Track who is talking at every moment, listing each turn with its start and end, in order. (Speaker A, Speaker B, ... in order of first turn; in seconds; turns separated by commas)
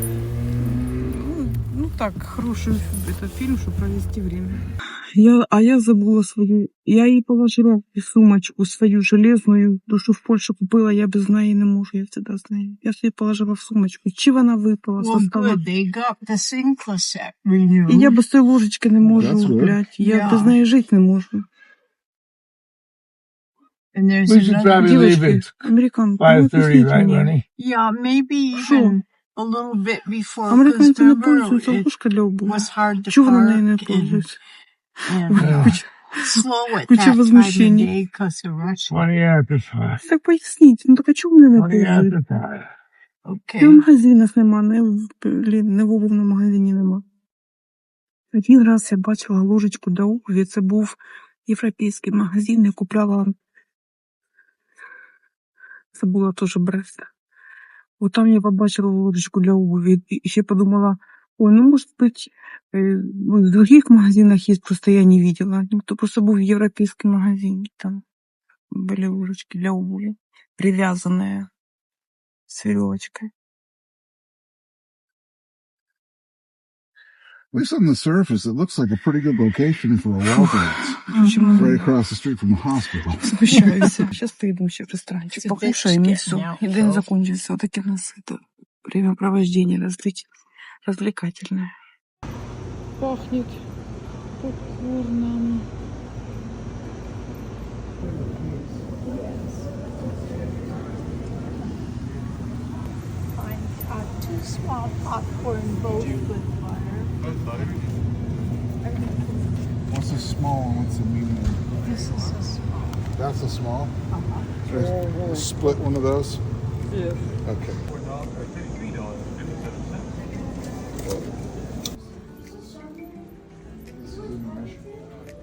Speaker A: 0.6-15.6, Speaker B: 15.0-18.2, Speaker A: 17.9-21.5, Speaker C: 19.1-19.8, Speaker B: 20.0-20.6, Speaker B: 23.9-25.1, Speaker D: 24.3-25.7, Speaker A: 24.8-27.3, Speaker D: 26.2-27.4, Speaker B: 27.6-31.9, Speaker A: 28.6-29.0, Speaker A: 30.5-34.4, Speaker B: 32.5-34.3, Speaker B: 35.1-39.0, Speaker A: 35.3-37.9, Speaker D: 35.4-35.8, Speaker D: 38.9-40.0, Speaker A: 40.0-42.2, Speaker D: 41.6-42.7, Speaker B: 43.2-43.8, Speaker A: 43.6-47.0, Speaker A: 48.3-53.3, Speaker A: 55.9-57.1, Speaker A: 58.0-68.0, Speaker A: 68.7-71.5, Speaker A: 72.5-73.3, Speaker C: 77.5-81.0, Speaker A: 81.1-81.9, Speaker B: 81.1-81.7, Speaker C: 81.6-83.6, Speaker A: 83.2-90.3, Speaker B: 85.4-87.1, Speaker A: 90.8-91.7, Speaker A: 93.0-93.6, Speaker A: 94.4-95.7, Speaker B: 103.4-107.1, Speaker C: 109.9-111.8, Speaker B: 111.8-113.0, Speaker C: 113.1-113.9, Speaker B: 114.1-114.5, Speaker C: 114.7-116.4, Speaker A: 114.7-115.5, Speaker A: 116.9-117.2, Speaker C: 117.5-117.8, Speaker C: 123.9-124.9